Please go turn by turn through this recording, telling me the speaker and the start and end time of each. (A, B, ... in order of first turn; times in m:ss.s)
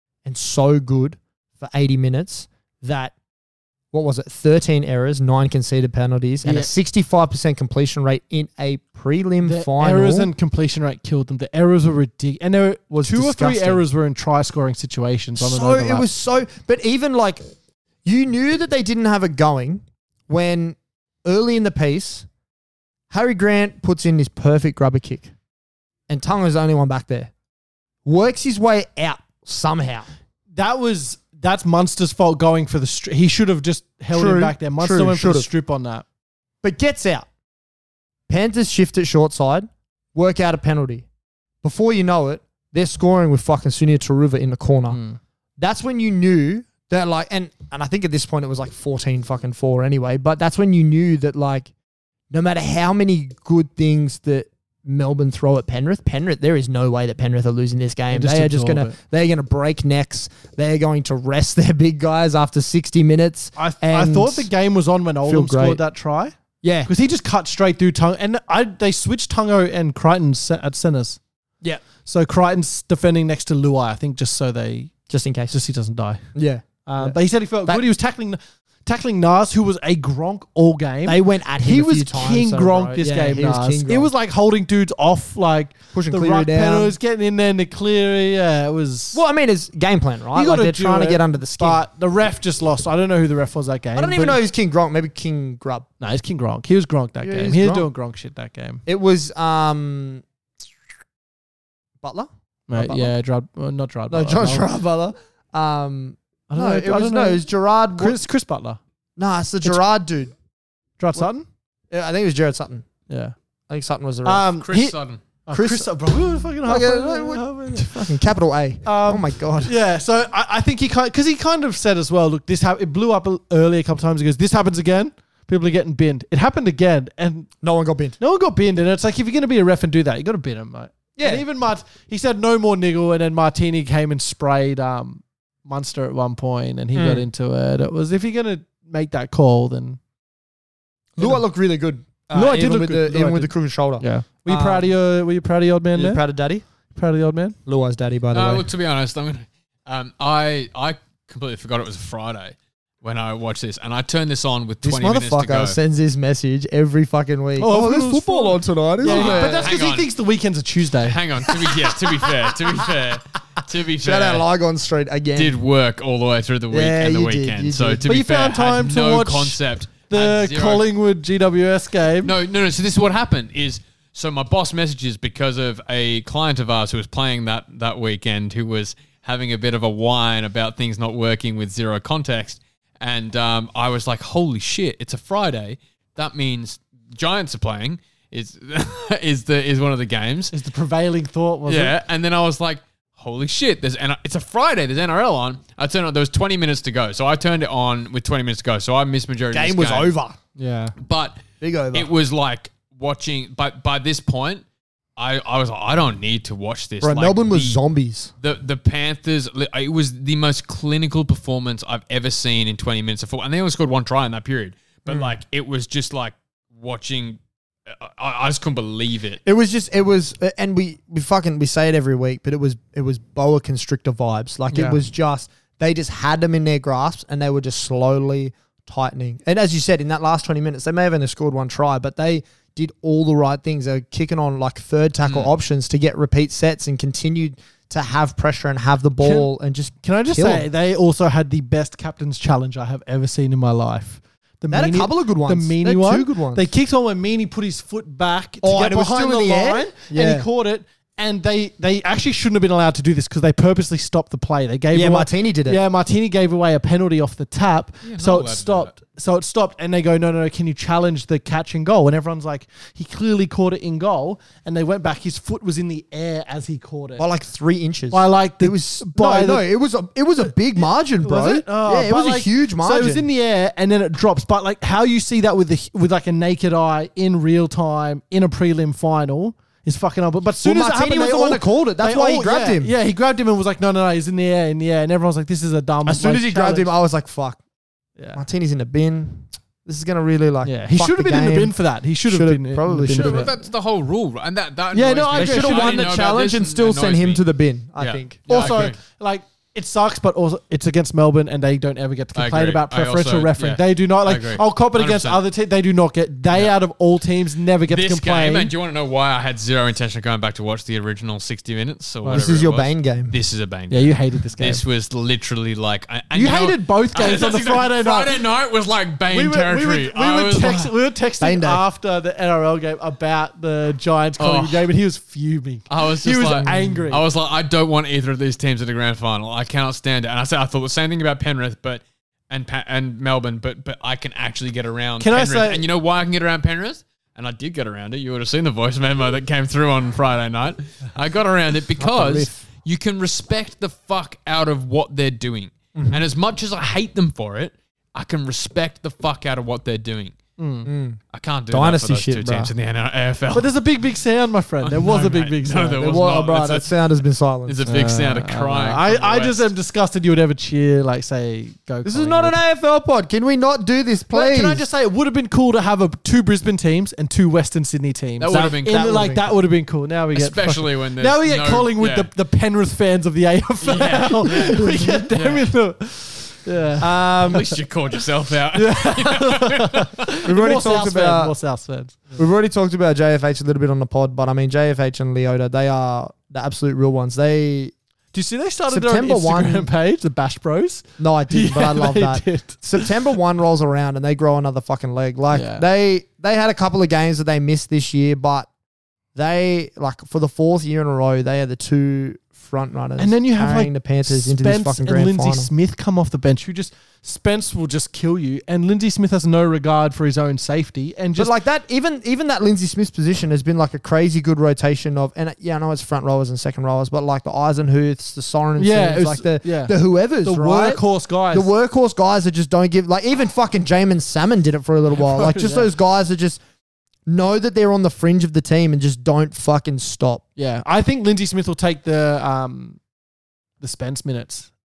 0:00.2-0:03.1 A
0:03.9-0:10.3 A
0:06.4-0:06.7 B
0:09.4-0:16.1 B
0:12.9-0:13.8 A
0:15.4-0:17.4 A
0:18.0-0:22.3 A
0:23.1-0:25.3 A
0:26.1-0:27.3 A
0:28.0-0:30.1 A
0:30.5-0:36.0 B
0:34.1-0:35.5 A
0:36.6-0:37.3 A
0:38.3-0:41.0 A
0:41.6-0:45.0 A
0:44.9-0:45.2 B
0:45.6-0:51.7 A
0:52.3-1:04.5 A
0:58.1-0:58.9 B
1:03.6-1:06.3 B
1:05.3-1:05.8 A
1:06.6-1:06.9 A
1:06.9-1:11.2 B
1:12.0-1:14.9 B
1:15.1-1:15.6 A
1:15.5-1:16.2 B
1:16.3-1:17.8 A
1:16.8-1:29.2 B
1:21.0-1:24.1 A
1:25.9-1:27.0 A
1:29.1-1:31.8 A
1:30.3-1:34.4 B
1:34.0-1:35.8 A
1:36.0-1:38.8 B
1:37.2-1:37.9 A
1:38.8-1:40.2 A
1:42.0-1:43.1 A
1:42.7-1:44.7 B
1:44.1-1:48.2 A
1:46.5-1:47.4 B
1:48.0-1:48.8 B
1:49.2-1:50.3 A
1:51.0-1:51.4 B
1:51.9-1:52.8 A
1:53.1-1:53.3 B
1:53.7-1:54.5 A
1:54.2-1:58.1 B
1:54.6-1:55.2 C
1:55.5-1:55.9 A
1:56.6-1:59.7 A
1:58.8-2:07.5 B
2:07.6-2:08.2 A
2:08.2-2:20.0 B
2:11.2-2:11.4 A
2:16.9-2:17.2 A
2:21.2-2:21.4 B
2:21.2-2:24.9 A
2:22.3-2:26.2 B
2:25.9-2:26.6 A
2:26.9-2:27.6 B
2:27.6-2:28.7 A
2:28.3-2:35.8 C
2:34.8-2:39.7 A
2:37.6-2:41.2 B
2:39.0-2:40.1 C
2:41.0-2:44.4 C
2:44.0-2:45.6 A
2:45.4-2:50.8 C
2:46.7-2:48.1 A
2:48.0-2:52.3 B
2:52.2-3:10.5 C
3:10.5-3:12.0 B
3:11.7-3:20.1 C
3:19.5-3:20.4 A
3:20.6-3:20.9 B
3:21.0-3:21.4 C
3:21.6-3:22.1 A
3:21.9-3:24.6 C
3:25.2-3:27.8 C
3:27.0-3:28.3 A
3:28.4-3:39.4 C
3:39.4-4:00.6 A
3:44.7-3:45.0 B
3:55.2-3:55.5 C
3:59.2-3:59.5 B
4:00.0-4:27.2 B
4:04.7-4:06.6 A
4:08.6-4:10.5 A
4:14.9-4:15.8 A
4:18.0-4:18.9 C
4:27.2-4:33.2 A
4:28.1-4:29.6 B
4:30.4-4:46.9 B
4:40.6-4:42.9 A
4:46.0-4:47.6 A
4:48.2-4:48.4 B
4:48.3-4:51.8 A
4:50.6-4:53.6 B
4:52.3-4:53.5 A
4:53.2-4:57.4 C
4:54.9-4:56.2 B
4:55.3-4:58.9 A
4:58.0-4:59.0 C
4:58.5-5:08.7 B
5:02.3-5:05.4 C
5:07.9-5:20.9 C
5:12.3-5:13.3 A
5:13.9-5:14.8 B
5:16.3-5:18.4 B
5:19.3-5:27.2 B
5:21.4-5:21.8 A
5:24.4-5:24.9 C
5:25.9-5:50.4 C
5:26.6-5:27.0 A
5:35.2-5:35.8 B
5:42.0-5:42.6 A
5:46.0-5:46.2 A
5:50.6-5:50.9 B
5:50.8-5:51.2 A
5:51.3-5:53.7 C
5:51.7-5:52.7 A
5:53.5-5:56.2 B
5:54.8-5:56.9 C
5:56.0-5:58.0 A
5:57.6-5:59.7 C
5:57.9-6:02.6 B
6:02.0-6:04.8 A
6:04.3-6:17.8 B
6:08.4-6:09.3 C
6:08.5-6:09.5 A
6:10.3-6:12.3 C
6:13.8-6:15.7 C
6:14.4-6:15.3 A
6:17.0-6:17.7 A
6:17.4-6:20.3 C
6:18.7-6:22.4 B
6:20.4-6:21.5 A
6:22.4-6:27.9 A
6:28.3-6:33.1 B
6:28.9-6:29.9 A
6:31.2-6:38.7 A
6:35.5-6:35.8 B
6:39.3-6:45.7 A
6:43.2-6:51.5 B
6:51.4-7:06.6 A
6:58.8-7:01.7 B
7:05.1-7:05.9 B
7:07.2-7:10.4 A
7:10.6-7:13.0 B
7:13.8-7:14.7 B